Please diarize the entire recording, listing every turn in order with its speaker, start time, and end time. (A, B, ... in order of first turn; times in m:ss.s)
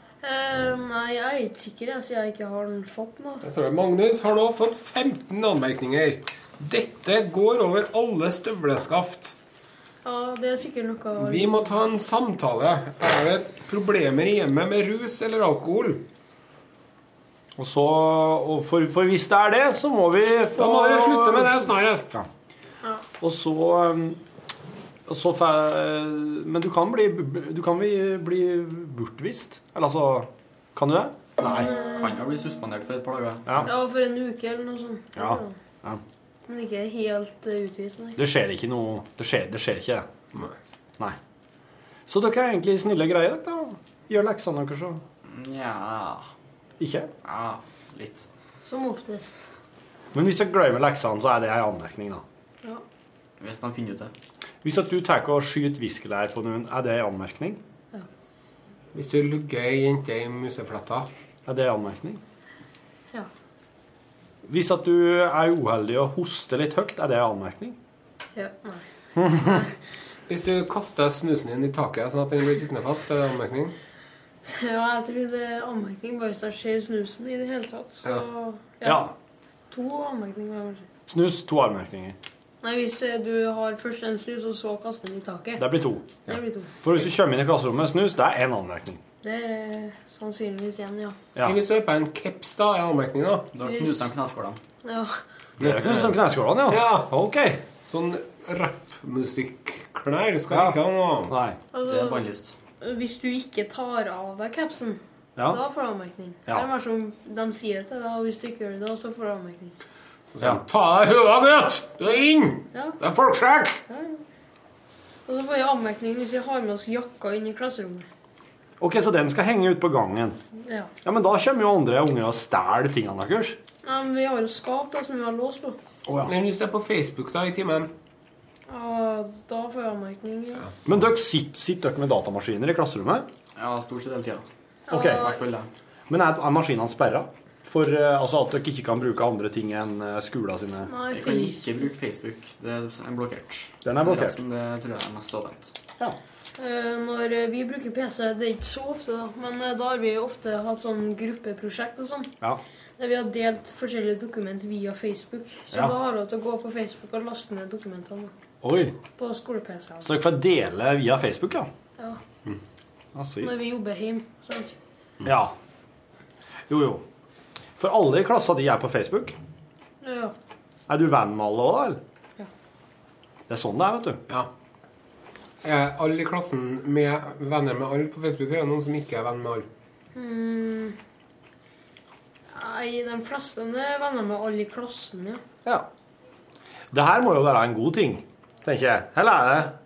0:00.2-0:03.4 A
0:03.4-0:09.4 B
0:10.0-0:11.8 A
0:11.2-0:16.0 B
0:17.6-0:22.2 C
0:20.6-0:22.2 B
0:23.2-0:24.2 C
0:25.1-0:31.7 C
0:31.4-0:32.1 A
0:31.8-0:33.7 D
0:33.6-0:35.6 A
0:35.2-0:36.0 C
0:36.5-0:38.2 A
0:38.2-0:40.1 C
0:42.1-0:45.0 C
0:45.2-0:46.2 D
0:46.8-0:47.1 C
0:47.2-0:48.3 D
0:48.6-0:49.4 A
0:50.1-0:52.2 C
0:53.4-0:54.1 D
0:54.6-0:57.6 C
0:58.9-1:01.1 B
1:01.5-1:02.2 C
1:04.5-1:07.8 C
1:08.4-1:09.7 A
1:09.2-1:09.6 C
1:10.3-1:13.8 B
1:14.5-1:19.1 A
1:18.8-1:19.1 C
1:19.7-1:20.9 A
1:21.1-1:22.2 C
1:22.6-1:25.7 A
1:25.6-1:26.1 C
1:26.3-1:26.7 A
1:26.8-1:29.0 C
1:29.2-1:31.2 A
1:31.4-1:33.5 B
1:33.5-1:34.6 D
1:33.6-1:34.1 A
1:34.8-1:35.2 A
1:35.6-1:37.1 B
1:35.6-1:37.6 C
1:37.8-1:41.3 B
1:40.5-1:40.8 C
1:41.3-1:41.6 C
1:41.7-1:42.3 A
1:41.8-1:42.6 D
1:42.8-1:49.7 A
1:50.3-1:53.8 B
1:52.7-1:53.0 A
1:53.9-1:54.2 A
1:55.3-1:58.1 A
1:58.8-2:00.4 C
2:00.6-2:00.9 A
2:01.0-2:03.6 C
2:03.8-2:05.8 A
2:06.2-2:07.9 B
2:08.7-2:10.7 A
2:10.9-2:13.3 C
2:13.6-2:14.4 D
2:14.9-2:15.4 A
2:14.9-2:15.3 C
2:15.1-2:15.7 D
2:16.1-2:20.9 C
2:20.9-2:21.8 A
2:21.1-2:25.8 D
2:23.8-2:24.4 C
2:26.6-2:32.3 A
2:33.0-2:38.3 A
2:38.6-2:39.0 C
2:39.2-2:40.1 A
2:40.0-2:41.7 C
2:43.2-2:43.5 C
2:43.4-2:44.8 A
2:45.2-2:45.5 C
2:46.7-2:47.0 C
2:47.8-2:49.4 C
2:50.0-2:50.3 A
2:50.9-2:52.0 C
2:53.5-2:54.2 C
2:55.6-2:59.7 B
3:00.2-3:01.0 A
3:02.5-3:05.4 A
3:06.9-3:09.7 C